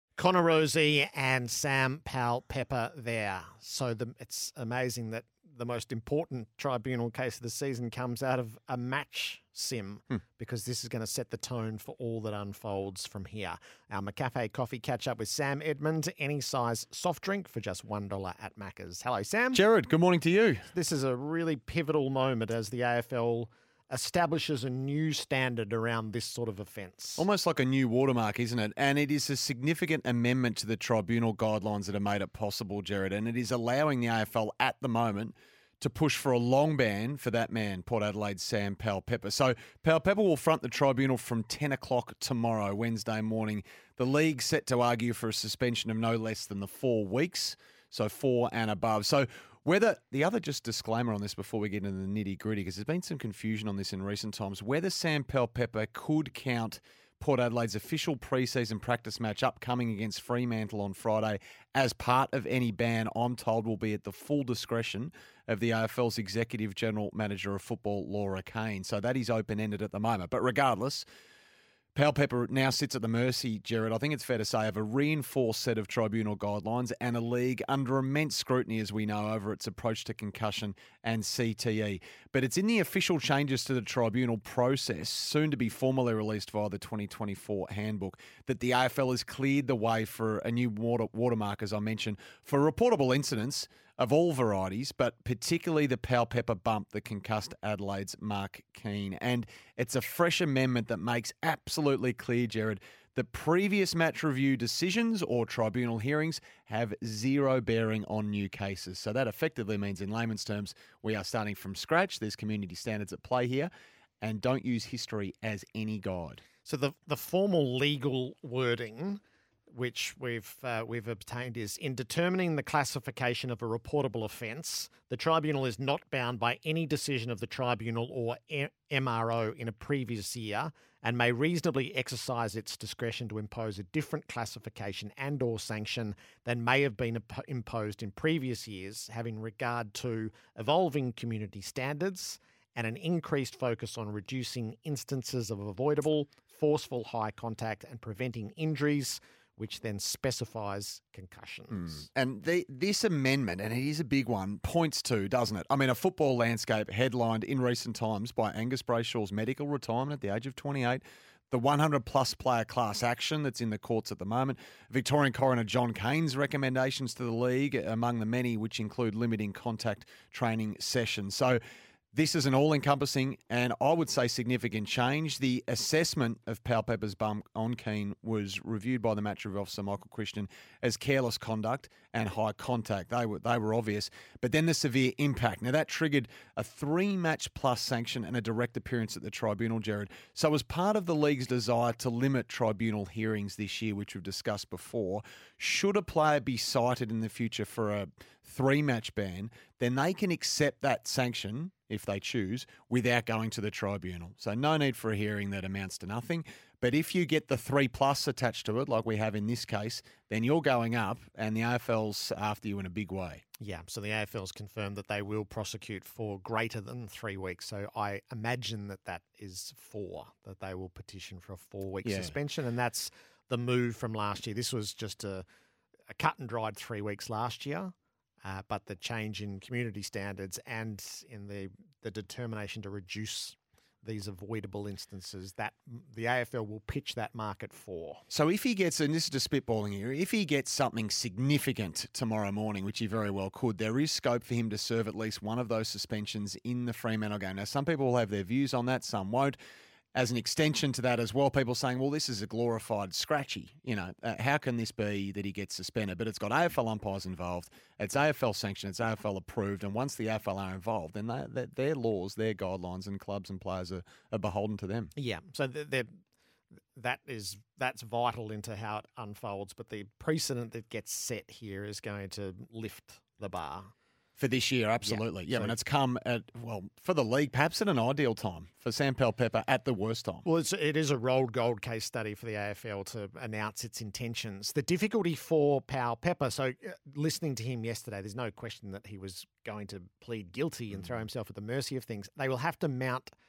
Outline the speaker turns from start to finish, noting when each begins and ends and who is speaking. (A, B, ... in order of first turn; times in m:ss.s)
0:00.2-0:19.6 A
0:19.5-0:20.7 B
0:20.7-0:27.3 A
0:27.2-1:11.1 B
1:12.0-1:56.4 B
1:56.6-2:32.1 A
2:31.7-2:51.6 B
2:52.1-3:33.4 B
3:33.6-3:45.5 A
3:42.0-3:42.4 B
3:46.1-3:47.9 A
3:48.4-3:58.2 A
3:58.3-4:09.6 B
4:10.2-4:25.1 B
4:25.2-4:26.1 A
4:26.9-4:33.9 A
4:34.4-4:40.5 B
4:35.0-4:35.8 A
4:40.4-4:53.3 A